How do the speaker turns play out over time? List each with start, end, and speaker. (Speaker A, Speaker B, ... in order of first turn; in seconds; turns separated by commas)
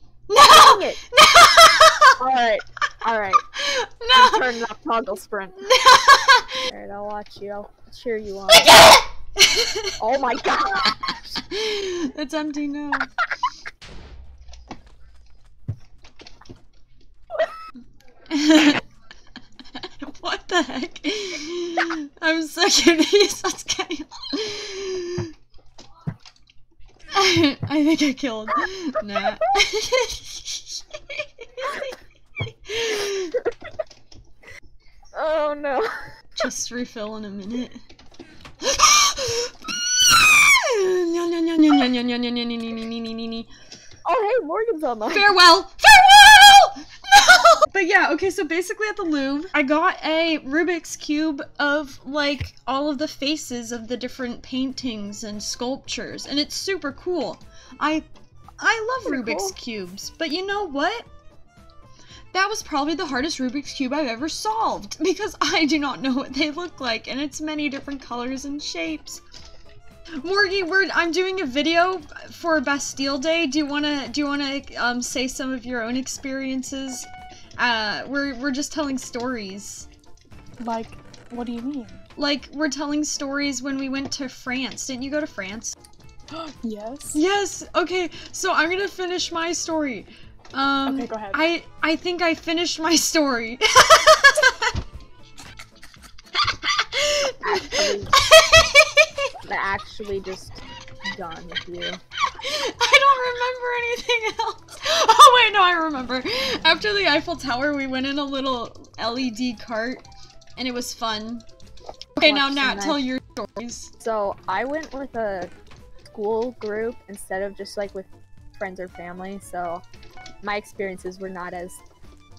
Speaker A: 0.3-2.2, Speaker B: 0.4-1.0, Speaker B: 2.2-3.4, Speaker A: 3.4-4.5, Speaker B: 4.1-5.7, Speaker A: 5.6-6.7, Speaker B: 6.7-8.7, Speaker A: 8.5-10.0, Speaker B: 10.0-11.4, Speaker A: 11.5-13.1, Speaker A: 18.3-18.8, Speaker A: 19.8-25.3, Speaker A: 27.1-33.3, Speaker B: 35.1-35.9, Speaker A: 36.4-37.8, Speaker A: 38.6-43.5, Speaker B: 44.0-45.3, Speaker A: 45.1-58.1, Speaker A: 58.6-61.1, Speaker B: 59.1-59.5, Speaker A: 62.3-69.2, Speaker A: 70.2-79.9, Speaker C: 80.6-82.0, Speaker A: 82.2-85.7, Speaker C: 86.3-87.2, Speaker A: 87.1-94.7, Speaker C: 90.8-91.4, Speaker A: 96.6-99.3, Speaker B: 97.4-98.1, Speaker B: 99.5-102.0, Speaker A: 102.3-110.0, Speaker A: 110.6-111.4, Speaker A: 112.2-113.9, Speaker B: 112.2-113.0, Speaker B: 114.0-115.5, Speaker B: 116.1-119.8, Speaker B: 120.4-121.8